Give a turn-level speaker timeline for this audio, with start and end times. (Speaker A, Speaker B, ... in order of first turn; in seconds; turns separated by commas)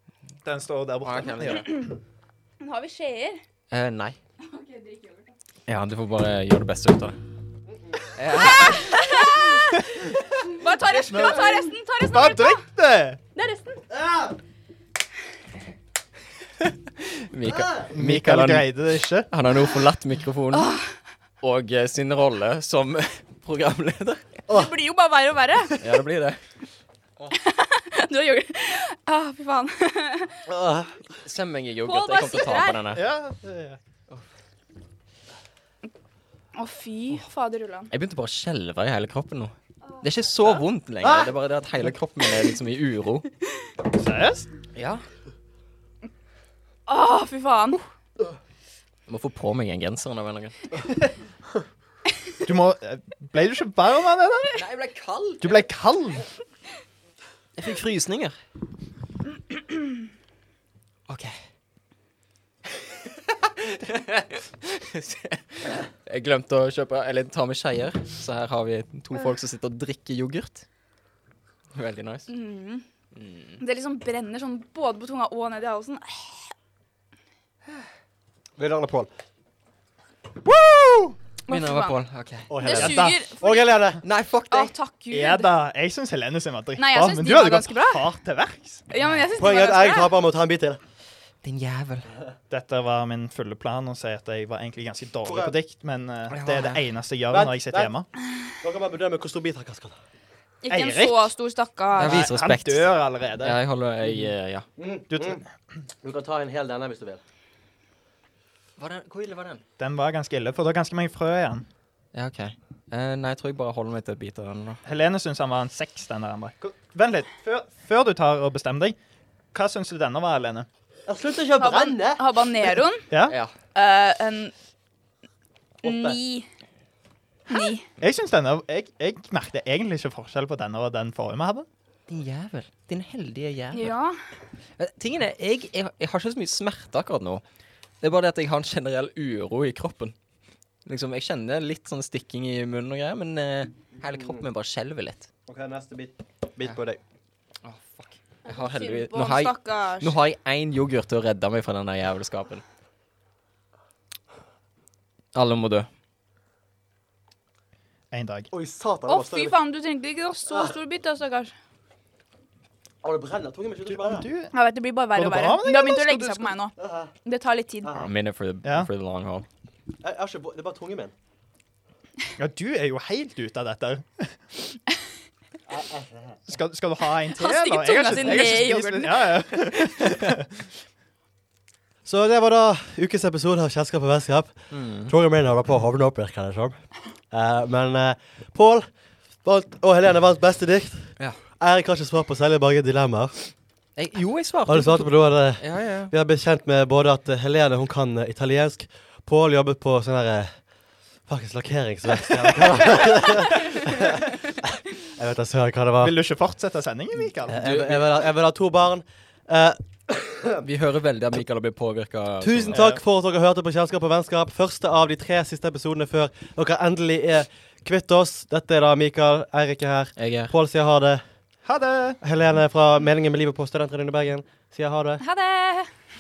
Speaker A: 0.4-1.8, Speaker B: 1.0-1.7, Speaker C: 1.4-1.9, Speaker C: 2.6-3.4, Speaker B: 3.7-4.2, Speaker C: 4.4-5.3, Speaker B: 5.7-7.2, Speaker B: 8.2-9.3, Speaker C: 8.3-9.8, Speaker A: 9.8-10.0, Speaker C: 10.4-12.6, Speaker A: 10.8-13.2, Speaker C: 13.3-13.8, Speaker D: 13.9-14.3, Speaker B: 16.6-18.8, Speaker D: 17.5-17.8, Speaker A: 17.9-19.3, Speaker B: 19.3-20.8, Speaker C: 20.5-20.9, Speaker B: 21.4-24.4, Speaker C: 24.5-25.8, Speaker B: 25.8-26.4, Speaker C: 27.3-30.4, Speaker D: 30.5-31.2, Speaker B: 31.2-33.0, Speaker C: 31.8-32.9, Speaker A: 32.9-33.8, Speaker C: 36.5-37.9, Speaker B: 37.9-43.2, Speaker A: 43.9-44.5, Speaker B: 44.7-45.0, Speaker C: 46.9-47.8, Speaker B: 49.1-50.5, Speaker A: 52.4-54.6, Speaker B: 54.5-55.6, Speaker A: 55.4-56.2, Speaker B: 57.5-58.4, Speaker B: 61.1-61.4, Speaker B: 62.8-70.6, Speaker B: 71.7-72.3, Speaker C: 72.3-72.8, Speaker B: 73.1-73.6, Speaker C: 73.6-76.5, Speaker D: 78.6-79.1, Speaker A: 80.4-81.2, Speaker C: 81.5-82.0, Speaker B: 81.5-82.5, Speaker D: 82.5-84.0, Speaker C: 82.6-83.9, Speaker A: 82.7-83.2, Speaker B: 84.0-84.7, Speaker C: 84.5-85.5, Speaker A: 85.1-88.9, Speaker C: 86.8-88.1, Speaker C: 88.9-90.1, Speaker D: 89.3-90.8, Speaker B: 91.4-92.1, Speaker A: 92.5-98.0, Speaker D: 95.2-95.5, Speaker B: 96.3-96.8, Speaker D: 97.3-97.9, Speaker D: 98.6-100.0, Speaker C: 100.6-102.3, Speaker A: 100.7-101.3, Speaker A: 102.0-103.6, Speaker B: 102.0-104.7, Speaker D: 104.8-105.4, Speaker A: 105.1-105.4, Speaker D: 106.0-107.2, Speaker B: 108.8-109.6, Speaker A: 109.8-111.6, Speaker B: 112.1-114.8, Speaker A: 114.8-119.0, Speaker A: 119.5-120.7, Speaker D: 121.1-122.7, Speaker C: 121.6-123.1, Speaker A: 123.1-123.4, Speaker B: 123.2-123.5, Speaker C: 123.7-124.5, Speaker D: 125.8-126.2, Speaker C: 125.8-126.5, Speaker C: 127.5-127.9, Speaker A: 128.0-131.7, Speaker B: 132.1-134.0, Speaker C: 133.7-134.2, Speaker B: 134.8-137.4, Speaker B: 138.0-140.1, Speaker B: 140.8-145.3, Speaker D: 144.1-144.4, Speaker D: 145.5-147.0, Speaker B: 147.6-152.6, Speaker C: 148.4-150.2, Speaker B: 155.3-155.9, Speaker A: 158.1-158.5, Speaker D: 158.5-159.6, Speaker C: 159.1-161.5, Speaker D: 160.5-160.7, Speaker D: 163.0-164.3, Speaker A: 163.8-164.5, Speaker C: 164.5-168.0, Speaker A: 165.1-166.6, Speaker D: 166.8-167.1, Speaker D: 167.8-168.1, Speaker B: 167.9-169.4, Speaker A: 168.6-168.9, Speaker D: 170.0-171.1, Speaker A: 172.4-174.8, Speaker D: 175.7-176.4, Speaker A: 176.5-180.5, Speaker C: 177.3-179.7, Speaker D: 182.0-193.4, Speaker B: 184.7-185.1, Speaker B: 193.9-196.1, Speaker D: 194.7-200.7, Speaker D: 201.2-206.1, Speaker A: 206.0-207.6, Speaker D: 207.5-210.6, Speaker B: 207.5-208.1, Speaker B: 210.6-212.8, Speaker D: 212.4-221.2, Speaker A: 212.7-213.0, Speaker B: 220.2-220.5, Speaker A: 221.6-222.2, Speaker D: 222.2-225.2, Speaker C: 225.2-225.9